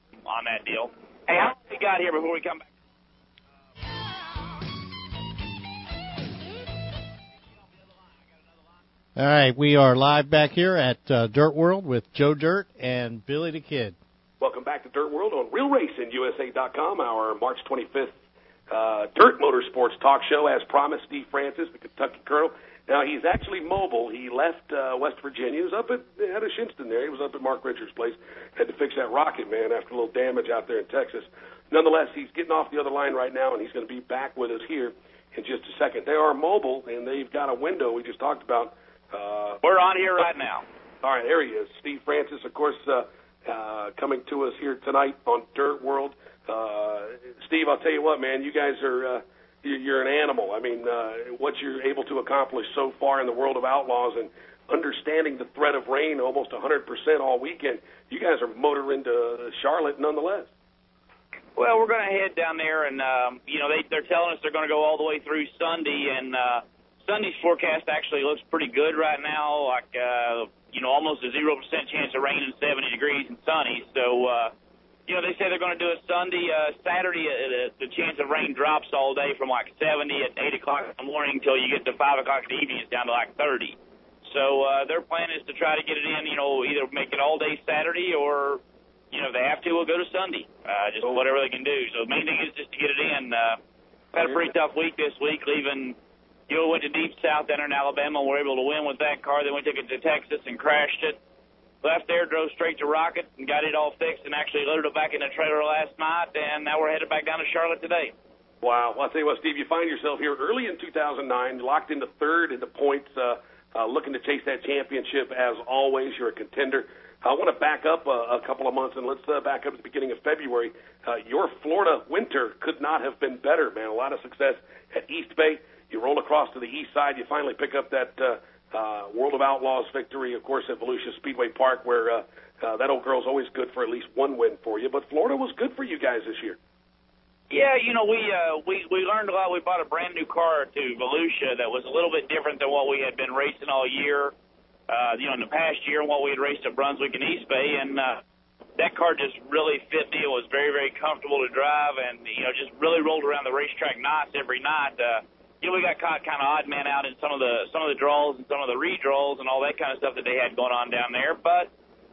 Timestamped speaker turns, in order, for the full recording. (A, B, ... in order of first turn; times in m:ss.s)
0:00.2-0:02.7 A
0:09.2-0:14.0 B
0:14.4-0:18.2 C
0:18.7-0:39.6 C
0:39.6-0:40.6 A
0:41.0-1:00.5 C
1:01.6-1:14.5 A
1:15.1-1:28.6 A
1:29.1-1:33.6 A
1:34.1-1:36.0 A
1:36.5-1:41.2 A
1:41.8-1:48.1 A
1:48.6-2:16.6 C
2:17.5-2:24.3 A
2:24.9-2:28.2 A
2:28.8-2:41.7 A